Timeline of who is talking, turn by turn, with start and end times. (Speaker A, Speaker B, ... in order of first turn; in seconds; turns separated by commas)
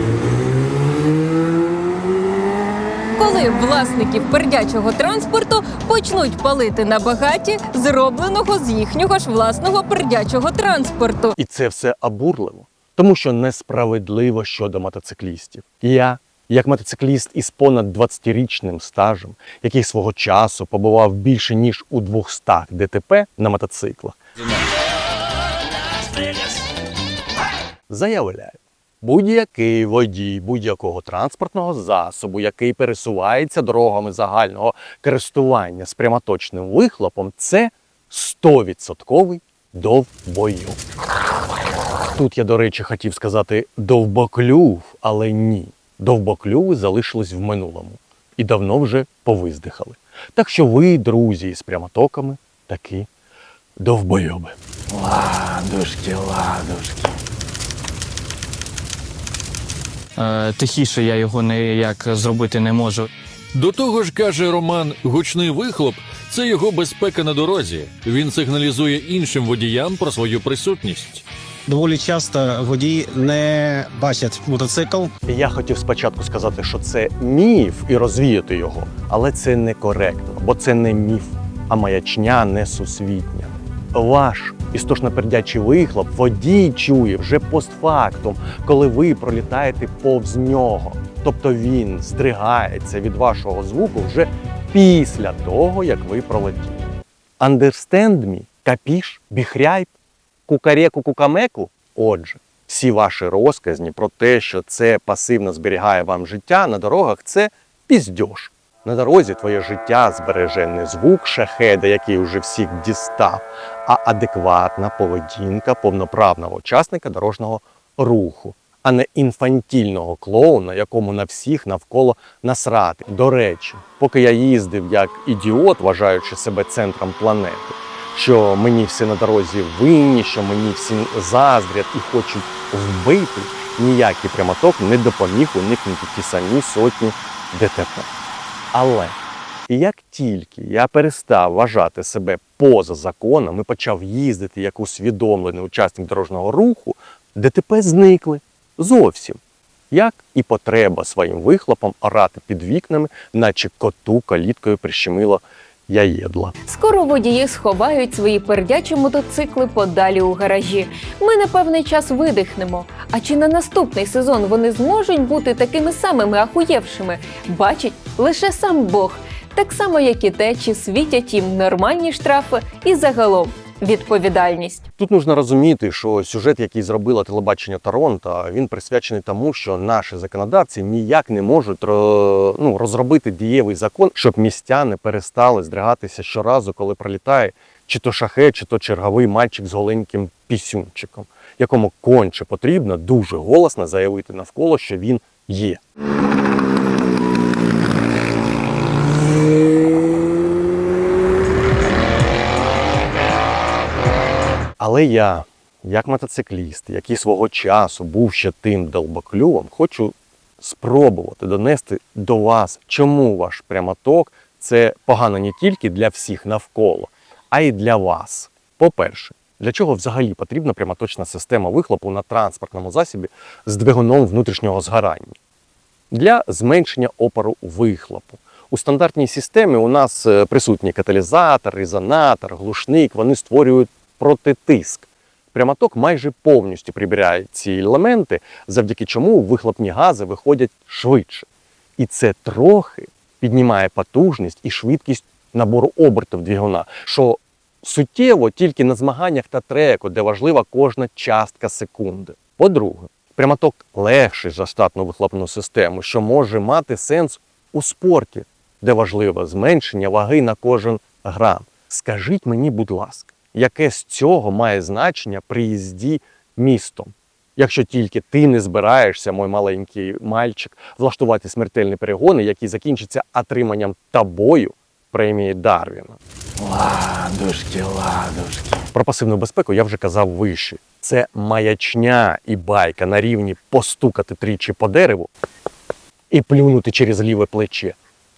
Speaker A: 3.2-11.3, Speaker B: 11.3-24.2, Speaker B: 27.9-40.8, Speaker B: 42.1-53.1, Speaker B: 53.8-54.5, Speaker C: 54.9-57.1, Speaker D: 60.2-63.1, Speaker C: 63.5-71.2, Speaker E: 71.7-75.1, Speaker B: 75.2-96.9, Speaker B: 97.4-99.9, Speaker B: 100.5-138.1, Speaker B: 138.7-139.2, Speaker B: 139.7-149.4, Speaker B: 149.9-156.5, Speaker A: 156.7-174.9, Speaker B: 175.0-195.8, Speaker B: 204.8-225.4, Speaker B: 226.1-276.2, Speaker C: 276.6-278.6, Speaker B: 278.9-285.3, Speaker B: 286.3-288.0